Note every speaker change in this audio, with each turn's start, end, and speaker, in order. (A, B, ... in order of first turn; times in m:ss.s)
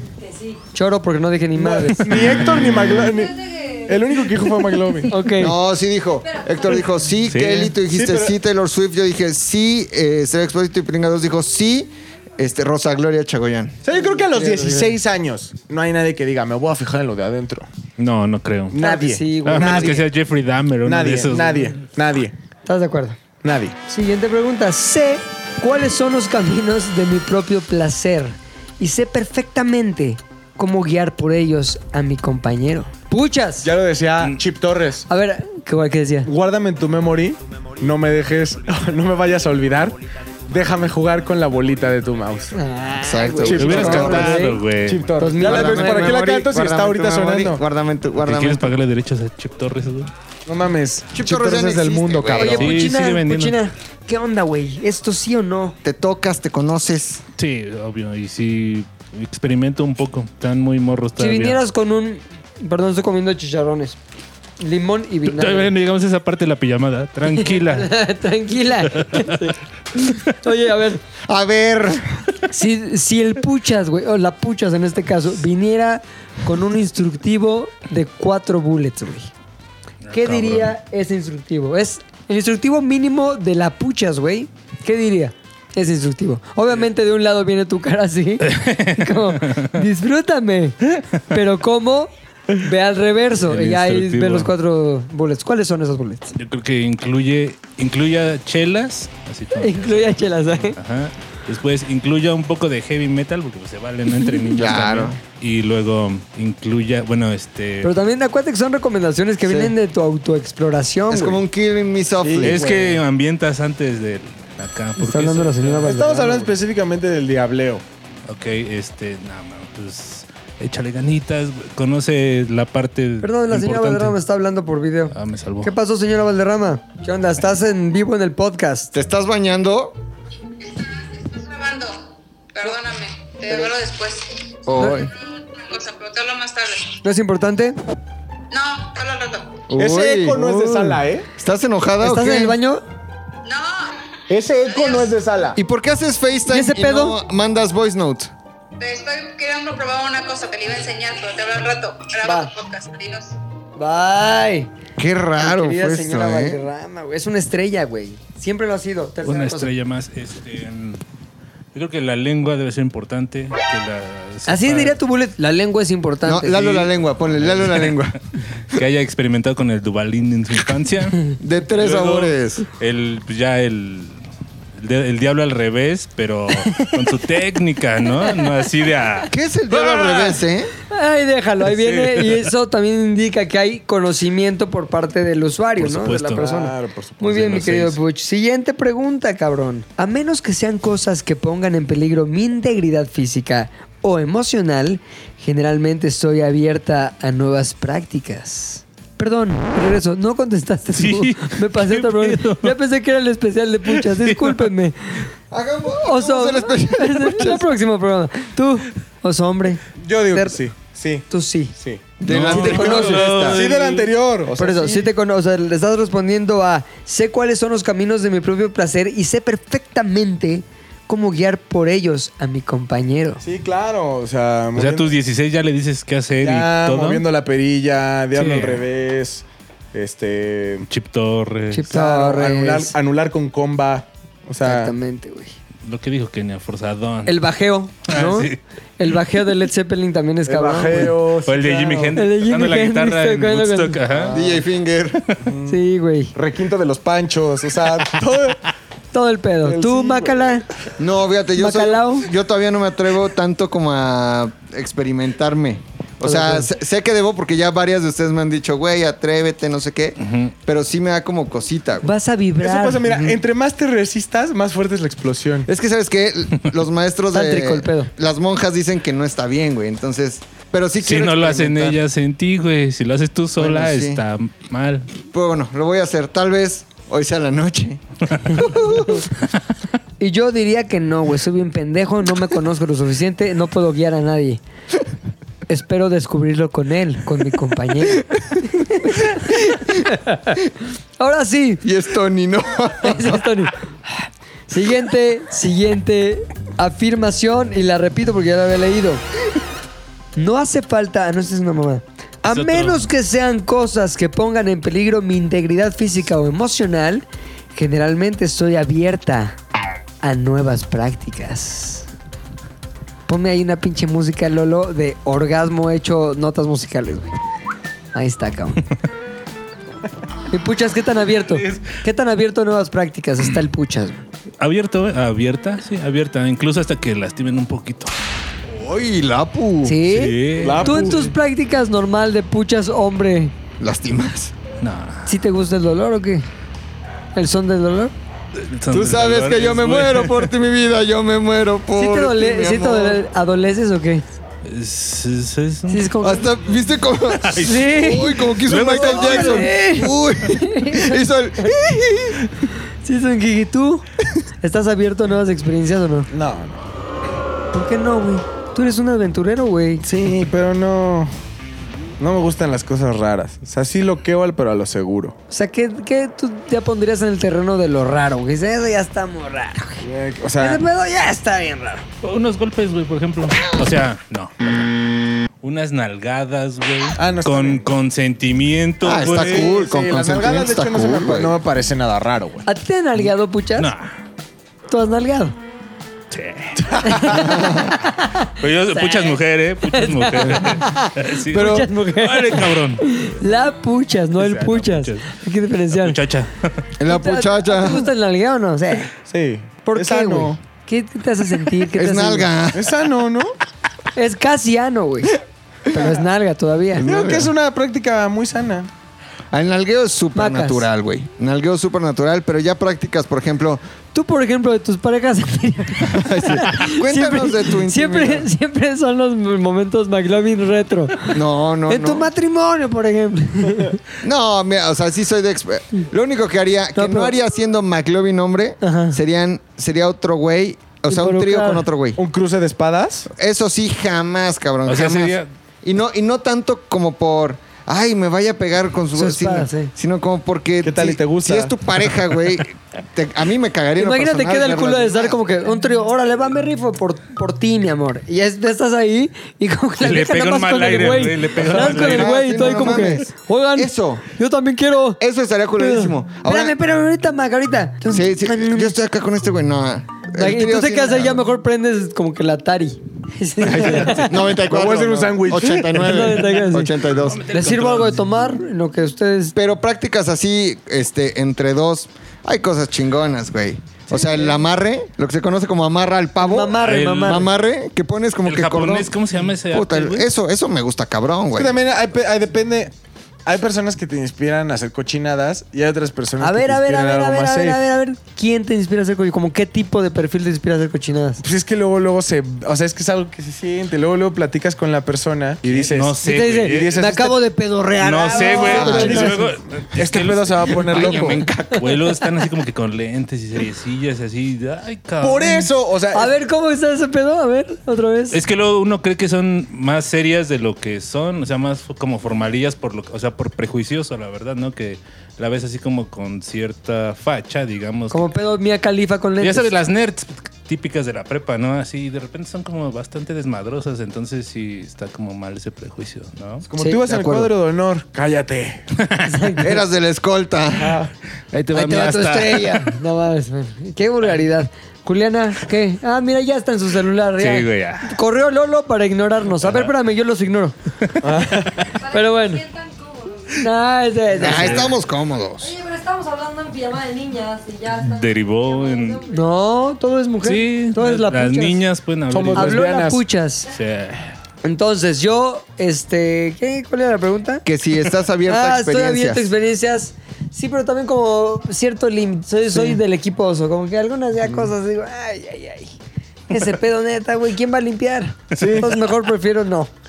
0:00.6-0:02.4 A
0:01.6-0:05.1 B
0:02.2-0:03.0 C
0:05.1-0:05.6 A
0:05.4-0:13.8 D
0:07.3-0:07.8 C
0:07.8-0:08.4 B
0:13.8-0:17.7 B
0:14.0-0:15.0 A
0:18.0-0:18.8 C
0:18.7-0:20.1 B
0:18.8-0:20.0 A
0:19.4-0:21.8 C
0:20.8-0:22.3 B
0:22.7-0:23.2 A
0:23.4-0:23.8 B
0:23.9-0:33.7 A
0:33.6-0:35.1 B
0:35.1-0:36.3 A
0:36.2-0:42.6 B
0:42.5-0:44.6 A
0:43.0-0:44.4 D
0:43.4-0:47.6 B
0:43.5-0:45.1 C
0:45.2-0:46.2 A
0:45.4-0:48.8 D
0:48.2-0:50.1 C
0:50.5-0:52.7 B
0:51.1-0:52.8 D
0:52.3-0:55.8 A
0:52.6-0:53.6 C
0:55.8-0:57.2 D
0:57.4-1:01.6 C
1:01.2-1:04.0 A
1:04.6-1:05.7 A
1:05.3-1:07.9 C
1:07.3-1:11.0 A
1:08.9-1:09.5 C
1:11.3-1:12.2 D
1:12.5-1:19.3 A
1:20.1-1:20.7 C
1:20.1-1:36.4 A
1:28.4-1:29.8 C
1:33.5-1:34.5 C
1:36.4-1:47.9 C
1:39.6-1:40.8 A
1:44.5-1:45.2 D
1:47.8-1:51.4 A
1:49.4-1:49.8 D
1:51.1-1:52.6 D
1:52.2-1:53.0 B
1:52.4-1:55.9 C
1:55.0-1:56.5 A
1:55.8-1:57.8 B
1:58.3-2:04.2 C
2:03.2-2:08.9 A
2:05.1-2:05.7 C
2:08.9-2:10.0 D
2:10.8-2:12.0 E
2:12.5-2:14.4 E
2:14.7-2:15.1 D
2:14.8-2:15.0 A
2:15.2-2:17.0 E
2:17.0-2:17.8 A
2:18.5-2:19.7 E
2:19.7-2:22.6 D
2:19.8-2:21.3 B
2:22.0-2:22.8 A
2:23.4-2:23.9 E
2:24.3-2:25.6 B
2:24.6-2:25.1 E
2:25.6-2:28.3 D
2:26.5-2:27.2 A
2:28.8-2:33.4 E
2:32.2-2:32.5 A
2:33.8-2:34.7 A
2:35.0-2:36.6 D
2:35.4-2:39.7 A
2:39.2-2:41.0 C
2:41.7-2:45.0 C
2:44.5-2:46.9 A
2:46.2-2:48.2 D
2:47.4-2:48.0 C
2:48.7-2:54.2 C
2:51.4-2:52.7 D
2:54.8-3:00.3 C
2:59.3-3:00.7 D
3:00.9-3:25.3 A
3:01.7-3:02.4 C
3:05.8-3:06.4 C
3:06.3-3:07.4 B
3:07.2-3:08.0 C
3:20.9-3:22.8 C
3:23.9-3:24.6 C
3:25.5-3:27.7 D
3:26.0-3:30.6 A
3:30.0-3:32.0 B
3:31.3-3:31.8 A
3:32.2-3:33.6 D
3:32.3-3:34.1 C
3:32.5-3:33.3 A
3:32.7-3:35.1 B
3:34.6-3:43.4 A
3:43.4-3:45.1 B
3:44.8-3:47.2 C
3:46.4-3:50.9 B
3:48.3-3:48.9 C
3:50.9-3:51.9 C
3:51.7-3:52.9 A
3:51.9-3:54.9 B
3:54.6-3:55.6 A
3:55.8-3:57.4 C
3:57.3-4:01.2 A
3:58.1-3:58.6 C
4:00.5-4:02.2 B
4:01.4-4:04.4 C
4:02.2-4:04.0 A
4:04.1-4:04.6 B
4:04.3-4:05.3 D
4:05.4-4:05.8 B
4:05.7-4:06.3 A
4:06.3-4:08.6 B
4:09.1-4:10.6 A
4:09.6-4:10.6 B
4:11.0-4:22.1 D
4:11.6-4:12.3 A
4:16.2-4:16.7 A
4:20.2-4:20.5 C
4:22.0-4:23.1 A
4:22.6-4:25.7 B
4:25.7-4:32.0 D
4:27.3-4:28.1 A
4:31.0-4:35.1 C
4:33.6-4:34.2 D
4:35.3-4:39.3 D
4:40.2-4:44.6 A
4:45.7-4:50.6 A
4:49.4-4:50.0 D
4:51.2-4:51.8 A
4:51.8-4:53.5 D
4:53.0-4:53.8 A
4:54.7-4:59.2 A
5:00.4-5:09.6 A
5:02.4-5:03.1 C
5:10.2-5:12.1 A
5:13.3-5:17.3 A
5:18.1-5:18.8 A
5:20.5-5:24.2 A
5:21.6-5:21.9 C
5:24.6-5:28.1 C
5:28.7-5:30.0 D
5:29.8-5:33.5 A
5:30.1-5:31.2 C
5:30.6-5:31.3 B
5:33.8-5:34.5 D
5:34.8-5:35.3 C
5:35.3-5:36.5 A
5:37.4-5:38.1 A
5:38.6-5:40.5 C
5:38.9-5:43.2 D
5:42.0-5:44.2 A
5:44.7-5:46.1 C
5:45.9-5:46.5 A
5:46.2-5:52.4 D
5:47.4-5:47.9 C
5:47.6-5:51.7 A
5:48.5-5:49.7 C
5:53.0-5:54.0 A
5:54.6-5:56.3 A
5:56.3-5:56.8 B
5:57.7-6:00.0 A
6:00.0-6:01.3 B
6:02.2-6:05.4 B
6:05.5-6:10.0 A
6:10.0-6:10.8 B
6:10.6-6:12.0 A
6:12.2-6:14.9 C
6:15.6-6:19.8 C
6:17.2-6:17.9 B
6:19.0-6:21.6 D
6:19.1-6:22.7 B
6:22.7-6:23.9 A
6:23.8-6:24.1 C
6:24.9-6:25.6 A
6:26.3-6:27.4 C
6:27.0-6:36.2 A
6:27.4-6:27.9 D
6:28.6-6:33.2 C
6:34.4-6:35.4 C
6:35.9-6:36.8 C
6:37.0-6:38.1 D
6:37.1-6:39.1 A
6:39.3-6:40.6 B
6:39.8-6:42.5 A
6:41.9-6:42.9 D
6:42.7-6:43.6 B
6:44.2-6:45.4 A
6:45.9-6:47.0 A
6:47.0-6:47.5 D
6:47.0-6:48.9 B
6:49.5-6:53.8 D
6:50.4-6:50.9 A
6:54.1-7:01.4 A
6:56.0-6:58.5 D
7:01.3-7:02.3 D
7:01.9-7:04.0 A
7:04.2-7:12.2 D
7:07.0-7:07.3 A
7:08.8-7:09.2 A
7:11.1-7:11.8 A
7:12.2-7:13.3 B
7:13.4-7:25.4 D
7:14.9-7:15.5 C
7:19.2-7:19.9 A
7:20.8-7:21.7 B
7:24.0-7:35.2 A
7:30.0-7:32.4 C
7:31.6-7:34.2 D
7:35.2-7:36.8 D
7:35.8-7:39.0 A
7:38.1-7:41.4 D
7:40.4-7:44.4 A
7:43.6-7:47.5 D
7:44.5-7:46.4 B
7:46.0-7:47.0 A
7:47.2-7:48.4 C
7:47.5-7:49.6 A
7:49.6-7:59.1 D
7:54.2-7:54.5 A
7:56.4-7:57.5 A
7:56.8-7:57.5 C
7:58.5-8:00.3 C
7:59.7-8:01.8 D
8:01.5-8:02.9 B
8:03.5-8:07.8 B
8:06.4-8:11.4 A
8:11.4-8:17.4 B
8:15.6-8:17.0 C
8:16.2-8:19.4 A
8:18.0-8:25.7 C
8:18.3-8:21.4 B
8:18.6-8:19.3 D
8:20.9-8:21.9 D
8:25.2-8:26.3 B
8:26.1-8:28.4 A
8:28.3-8:38.4 C
8:38.1-8:39.7 A
8:39.4-8:46.7 C
8:46.7-8:47.5 D
8:46.8-8:48.8 B
8:49.0-8:49.3 C
8:49.2-8:49.8 A
8:49.6-8:51.1 D
8:50.8-8:51.1 B
8:51.5-8:53.0 C
8:51.7-9:00.8 A
8:57.4-8:58.2 C
8:59.6-8:59.9 C
9:01.2-9:02.0 B
9:02.0-9:02.7 A
9:02.1-9:03.5 F
9:03.5-9:04.9 A
9:04.4-9:04.9 C
9:04.4-9:05.8 D
9:05.7-9:08.0 F
9:07.9-9:09.3 C
9:08.7-9:09.3 F
9:09.3-9:11.8 A
9:10.4-9:12.9 C
9:12.3-9:13.2 B
9:12.5-9:13.7 A
9:13.7-9:14.4 C
9:14.6-9:17.6 A
9:17.6-9:19.5 D
9:18.5-9:25.9 A
9:24.4-9:24.7 D
9:26.5-9:29.9 A
9:28.5-9:28.9 B